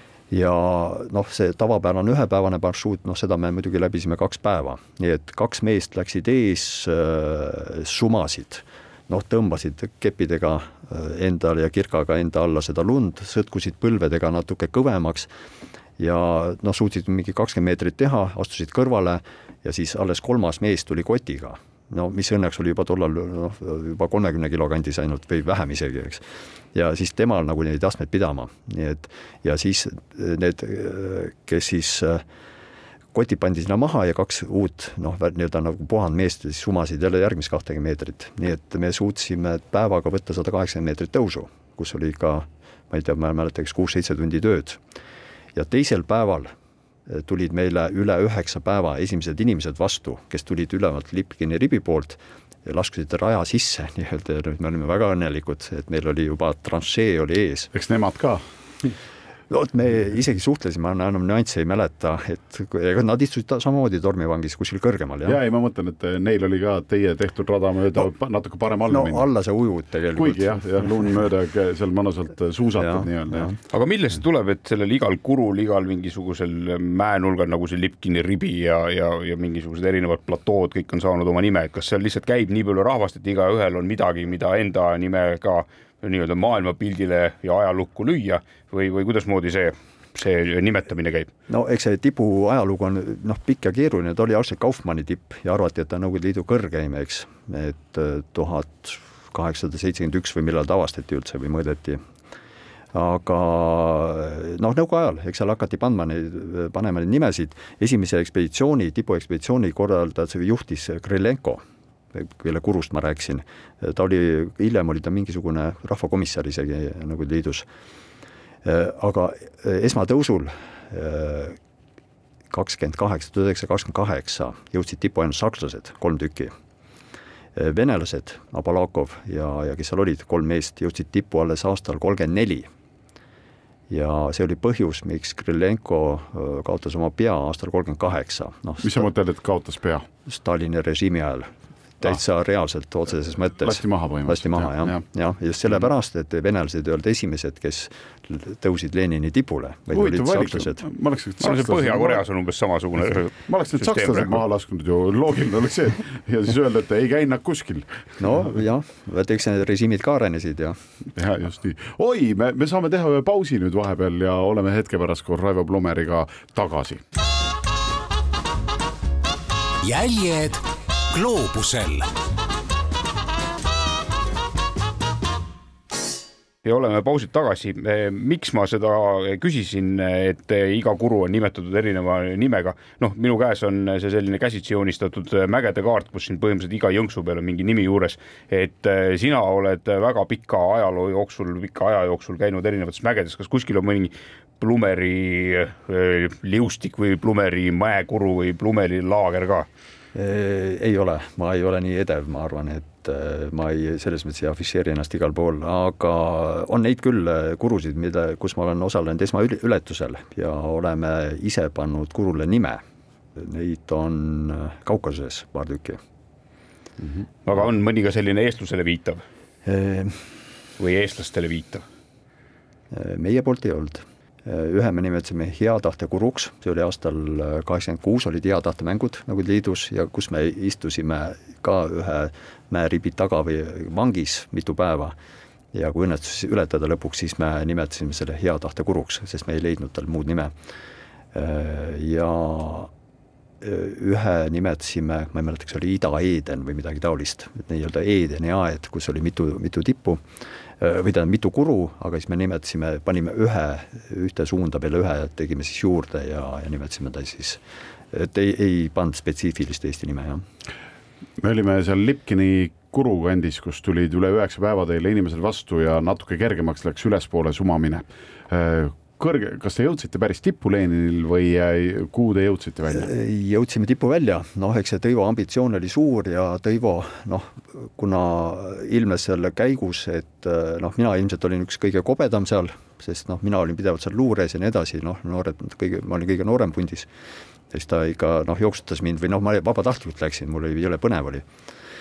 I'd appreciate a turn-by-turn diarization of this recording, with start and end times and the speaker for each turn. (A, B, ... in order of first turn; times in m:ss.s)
0:00.3-0:15.3 A
0:16.0-0:26.2 A
0:26.7-0:32.2 A
0:33.1-0:44.8 A
0:45.6-0:46.5 A
0:47.1-0:57.7 A
0:57.7-0:58.9 B
0:59.5-1:05.4 A
1:05.2-1:09.3 B
1:08.9-1:10.8 A
1:10.2-1:13.5 B
1:12.8-1:13.6 A
1:13.7-1:31.3 C
1:31.5-1:42.0 A
1:42.9-1:51.6 A
1:52.1-1:57.7 A
1:58.6-2:01.6 A
2:02.5-2:06.5 A
2:07.6-2:12.7 A
2:13.9-2:19.1 A
2:18.8-2:20.0 B
2:20.3-2:30.8 A
2:23.6-2:25.0 B
2:29.9-2:32.2 B
2:31.4-2:34.4 C
2:33.5-2:38.0 B
2:38.2-2:40.8 A
2:41.2-2:47.0 B
2:49.8-2:52.1 D
2:56.6-3:19.7 C
3:20.2-3:32.8 A
3:33.4-3:36.0 A
3:37.5-3:39.2 C
3:39.7-3:40.3 A
3:40.8-3:41.8 C
3:42.9-3:55.2 A
3:55.7-4:00.5 A
4:01.3-4:02.9 A
4:03.6-4:10.2 A
4:10.8-4:17.6 A
4:18.1-4:20.4 A
4:21.4-4:33.1 B
4:32.9-4:47.1 A
4:47.7-4:51.4 A